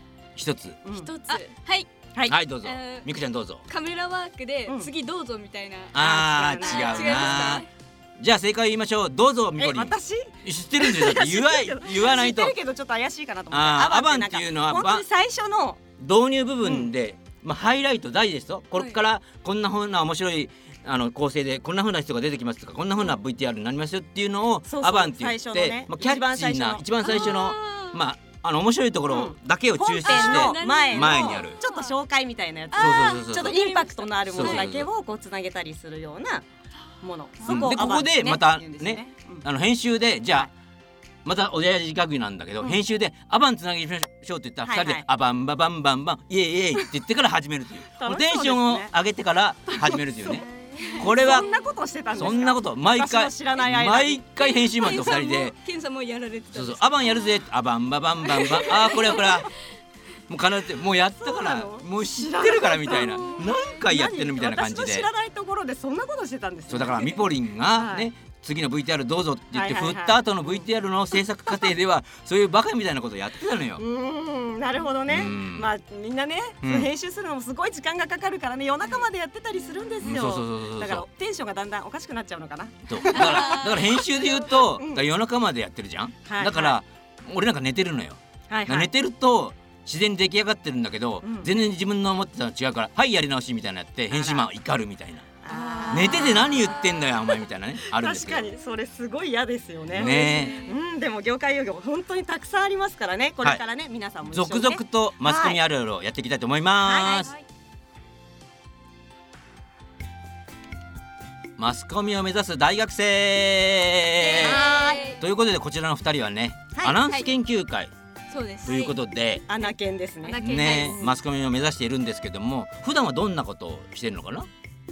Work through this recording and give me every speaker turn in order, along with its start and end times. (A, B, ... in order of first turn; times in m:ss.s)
0:00.4-0:00.8 A
0:00.8-0:01.1 B
0:00.8-0:01.5 C
0:01.3-0:01.9 D
0:02.3-0:03.6 A
0:02.6-0:03.1 D
0:03.7-0:06.0 D
0:05.9-0:07.6 A
0:06.0-0:07.6 B
0:06.6-0:07.7 D
0:08.2-0:12.5 A
0:09.6-0:15.8 B
0:13.5-0:15.0 A
0:16.0-0:31.6 A
0:16.6-0:16.9 B
0:24.6-0:27.3 B
0:27.0-0:28.0 D
0:29.1-0:36.4 B
0:30.0-0:32.0 D
0:32.7-0:34.7 D
0:32.8-0:33.5 A
0:34.3-0:34.9 A
0:37.0-0:39.4 B
0:37.4-0:37.7 D
0:37.5-0:40.5 A
0:41.2-0:51.5 A
0:44.6-0:45.0 B
0:48.0-0:48.9 B
0:50.8-0:51.4 D
0:50.8-0:54.2 B
0:52.1-0:55.6 A
0:54.6-0:57.4 D
0:56.5-0:59.5 A
0:58.2-0:59.4 D
1:00.3-1:05.1 A
1:01.2-1:08.1 B
1:06.7-1:13.8 A
1:09.5-1:10.7 B
1:13.8-1:25.0 B
1:15.1-1:15.7 A
1:16.6-1:16.9 A
1:20.0-1:21.0 A
1:22.9-1:35.3 A
1:23.1-1:24.1 D
1:26.2-1:26.8 B
1:28.5-1:28.9 B
1:31.2-1:31.5 B
1:34.1-1:34.5 B
1:35.4-1:37.2 B
1:35.5-1:36.4 D
1:35.9-1:38.4 A
1:37.9-1:45.6 B
1:39.9-1:40.6 A
1:40.0-1:40.8 D
1:44.3-1:47.3 A
1:46.8-1:47.2 B
1:47.0-1:47.4 C
1:51.6-1:57.9 A
1:54.3-1:55.2 D
1:54.4-1:55.1 B
1:57.0-1:57.3 D
1:58.3-1:58.9 D
1:58.6-1:59.4 A
1:59.5-2:01.1 B
2:00.2-2:01.0 C
2:00.4-2:04.5 A
2:00.5-2:01.0 D